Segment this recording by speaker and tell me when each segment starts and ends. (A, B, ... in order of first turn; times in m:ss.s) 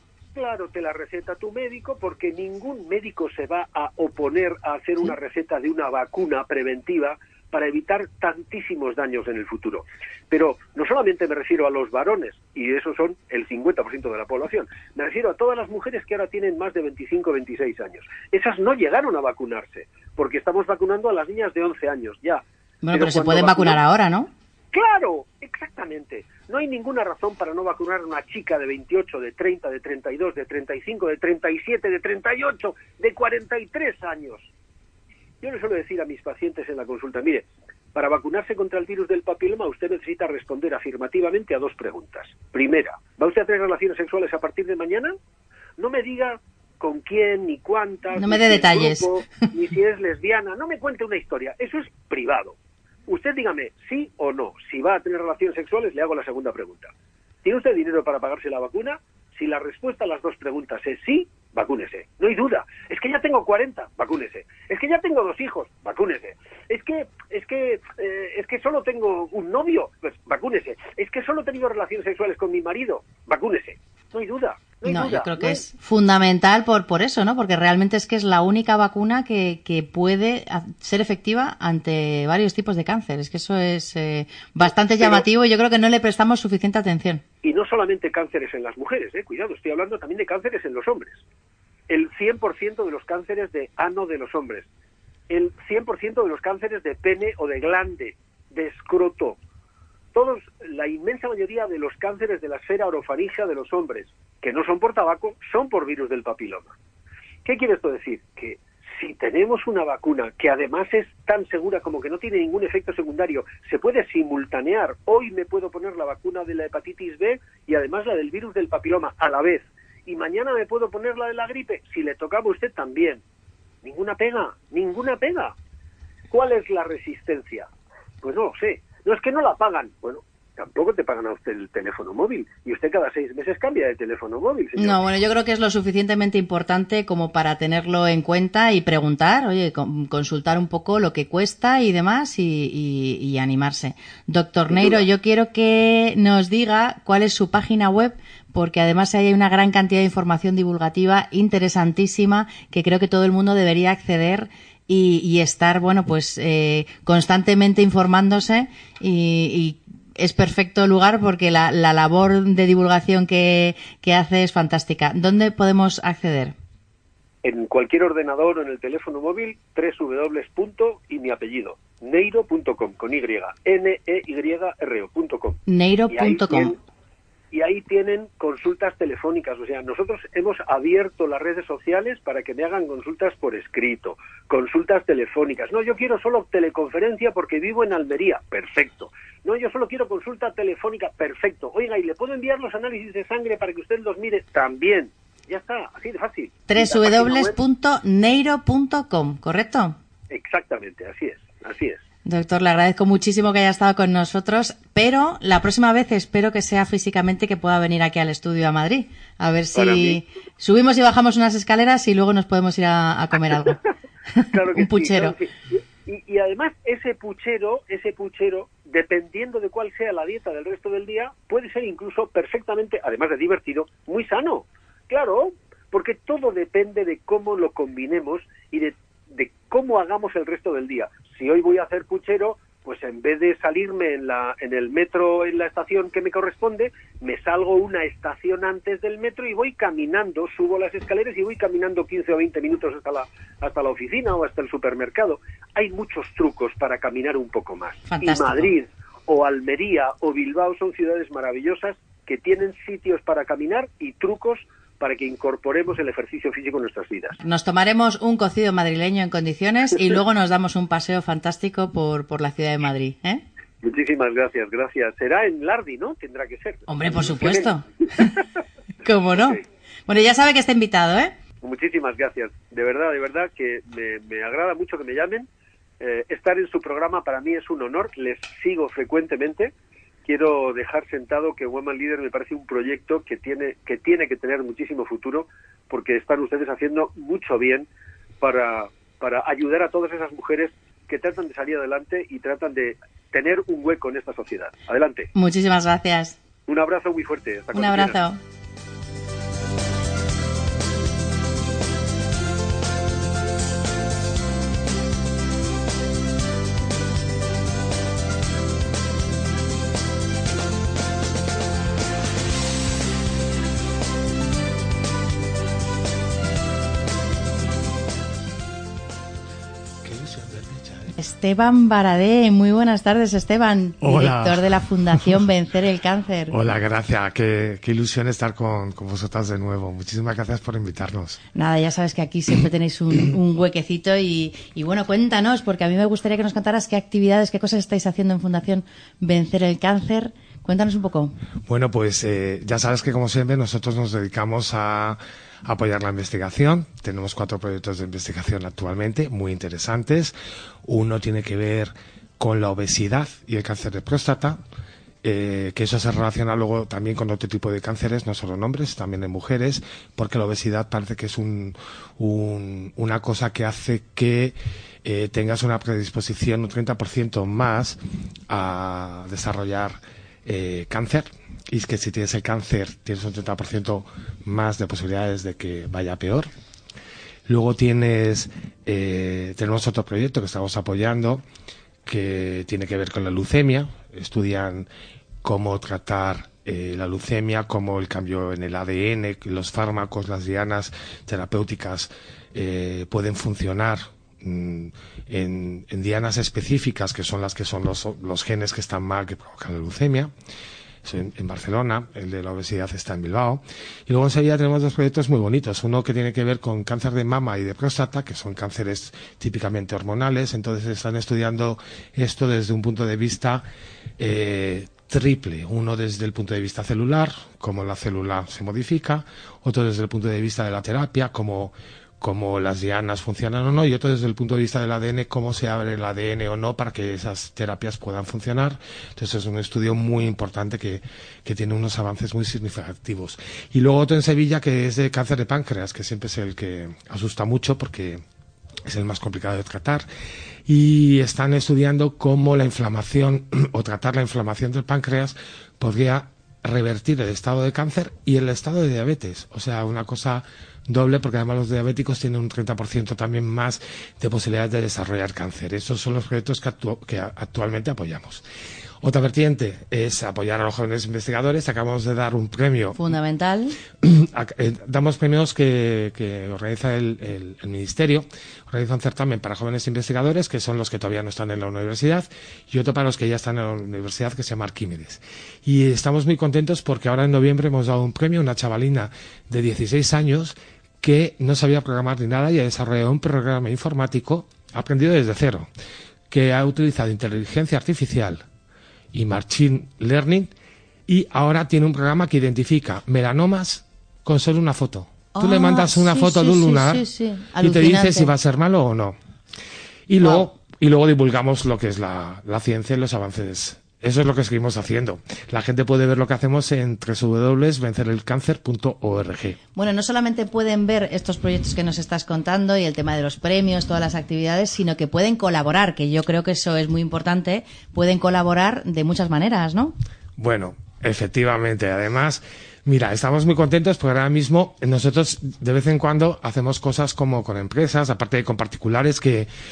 0:00.3-0:23.8 A
0:22.8-0:24.3 B
0:24.7-0:34.5 A
0:35.4-0:45.1 A
0:45.8-0:52.6 A
0:48.1-0:49.1 B
0:53.1-0:56.9 A
0:57.4-1:15.6 A
1:14.8-1:27.2 B
1:24.9-1:25.2 A
1:27.4-1:31.2 A
1:31.9-1:34.7 A
1:35.3-1:39.4 A
1:40.1-1:46.8 A
1:47.4-2:03.2 A
2:03.8-2:05.5 A
2:06.3-2:07.7 A
2:08.2-2:15.1 A
2:14.8-2:46.5 B
2:24.7-2:25.1 A
2:47.4-2:55.6 A
2:55.7-2:56.8 B
2:56.1-2:56.8 A
2:57.5-3:17.6 A
3:16.7-3:20.0 B
3:20.3-3:22.0 A
3:22.3-3:33.8 B
3:29.8-3:30.2 A
3:34.4-3:35.4 B
3:34.4-4:17.4 A
4:08.1-4:08.7 B
4:17.4-4:23.4 B
4:23.8-4:28.4 A
4:26.9-4:28.3 B
4:29.0-4:31.3 B
4:31.6-4:35.5 A
4:36.0-4:39.7 A
4:40.2-4:47.9 A
4:48.4-4:55.3 A
4:55.4-4:56.4 B
4:56.7-4:58.2 A
4:57.7-4:58.4 B
5:20.0-5:21.1 C
5:21.2-5:26.6 B
5:24.0-5:25.4 C
5:26.5-5:31.4 C
5:31.6-5:41.4 B
5:41.7-5:50.3 C
5:50.8-5:54.6 C
5:55.2-6:08.0 C
6:08.5-6:16.5 C
6:17.5-6:21.4 C
6:22.1-6:24.9 C
6:25.4-6:40.3 C
6:41.0-6:53.6 C
6:54.2-7:18.2 C
7:18.9-7:20.1 C
7:20.7-7:38.4 C
7:39.0-7:43.0 C
7:43.0-7:43.8 B
7:44.0-8:05.7 C
8:06.3-8:08.4 C
8:09.1-8:10.5 C
8:11.1-8:17.0 C
8:15.3-8:18.3 B
8:17.6-8:19.2 C
8:20.1-8:29.6 C
8:20.2-8:20.5 B
8:29.8-8:40.0 B
8:40.4-8:49.5 C